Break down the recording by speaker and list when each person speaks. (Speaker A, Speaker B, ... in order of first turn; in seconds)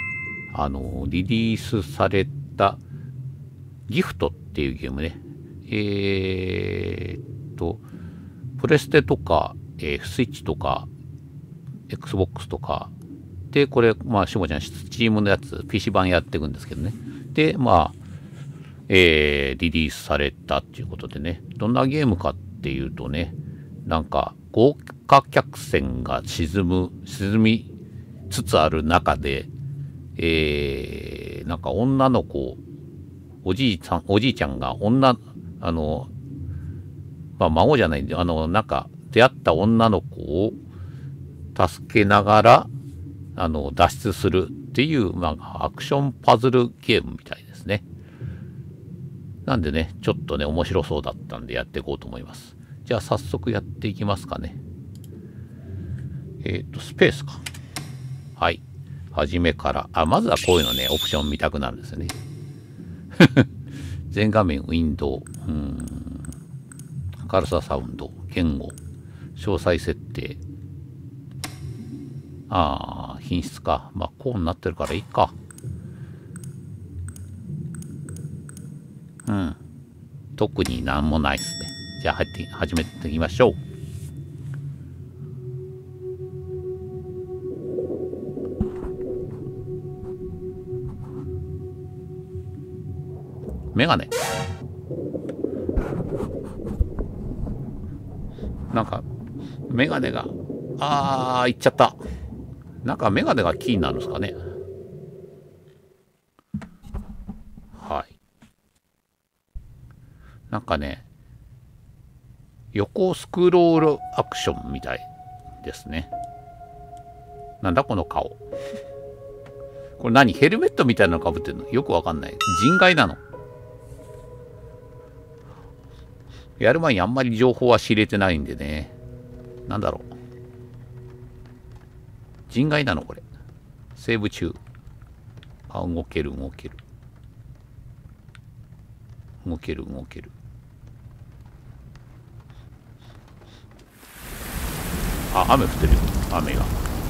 Speaker A: 0.5-2.8, 3.9-7.8, 8.6-10.9, 11.9-12.9, 13.5-18.0, 18.9-27.7, 28.3-29.5, 30.2-32.6, 33.4-36.1, 37.4-40.6, 41.5-42.7, 43.4-47.8, 49.5-54.6, 56.4-57.4, 58.4-58.6, 59.1-62.1, 63.1-63.5, 64.1-66.3, 67.2-68.8, 69.3-70.4, 72.5-75.3, 79.2-79.6, 80.3-83.6, 93.7-94.1, 98.7-99.0, 99.7-102.0, 102.8-104.4, 107.7-108.1, 110.5-111.0, 112.7-115.1, 115.6-116.1, 117.6-118.4, 120.0-123.2, 126.6-128.9, 129.7-130.1, 132.5-133.2, 133.9-134.6, 135.7-136.8, 139.4-140.3, 145.3-146.7